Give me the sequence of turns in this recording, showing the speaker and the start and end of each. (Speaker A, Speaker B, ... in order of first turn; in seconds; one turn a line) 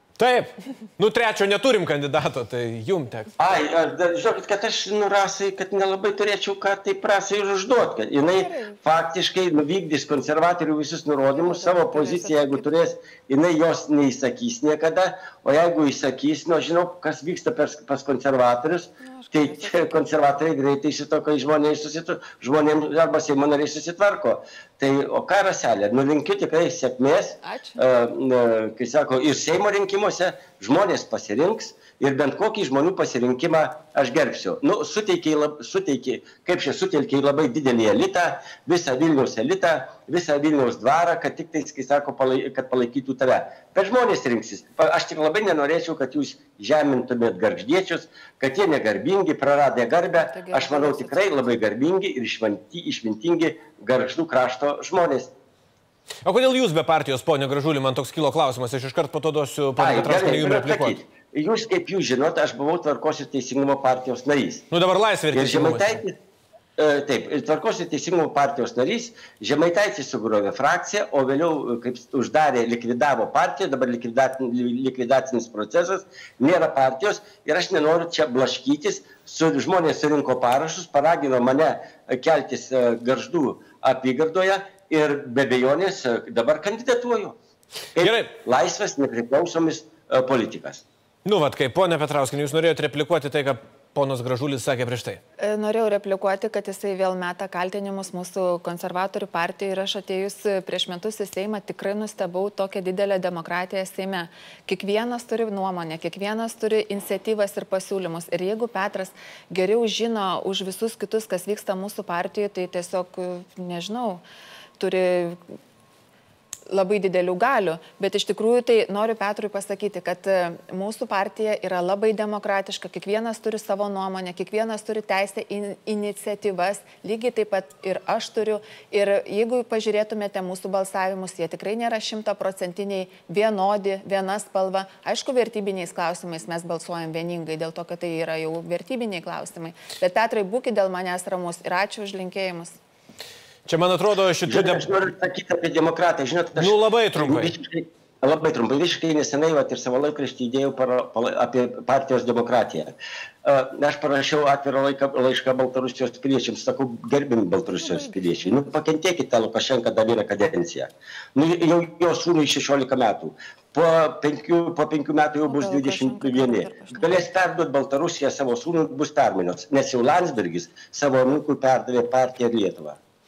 Speaker A: 0.2-3.4
Speaker B: 3.4-55.3
Speaker C: 8.3-8.8
Speaker C: 11.3-12.6
Speaker C: 19.0-20.0
Speaker C: 27.4-27.8
Speaker C: 50.2-51.4
Speaker A: 56.2-61.0
Speaker B: 59.8-64.7
Speaker A: 64.7-66.0
Speaker B: 65.3-66.2
Speaker B: 66.8-87.4
Speaker B: 88.0-90.8
Speaker A: 88.0-88.3
Speaker A: 91.2-95.2
Speaker C: 95.4-114.2
Speaker C: 114.8-115.4
Speaker C: 116.7-142.8
Speaker A: 143.7-144.9
Speaker B: 144.5-173.0
Speaker A: 146.6-147.5
Speaker C: 157.8-158.6
Speaker C: 165.5-167.2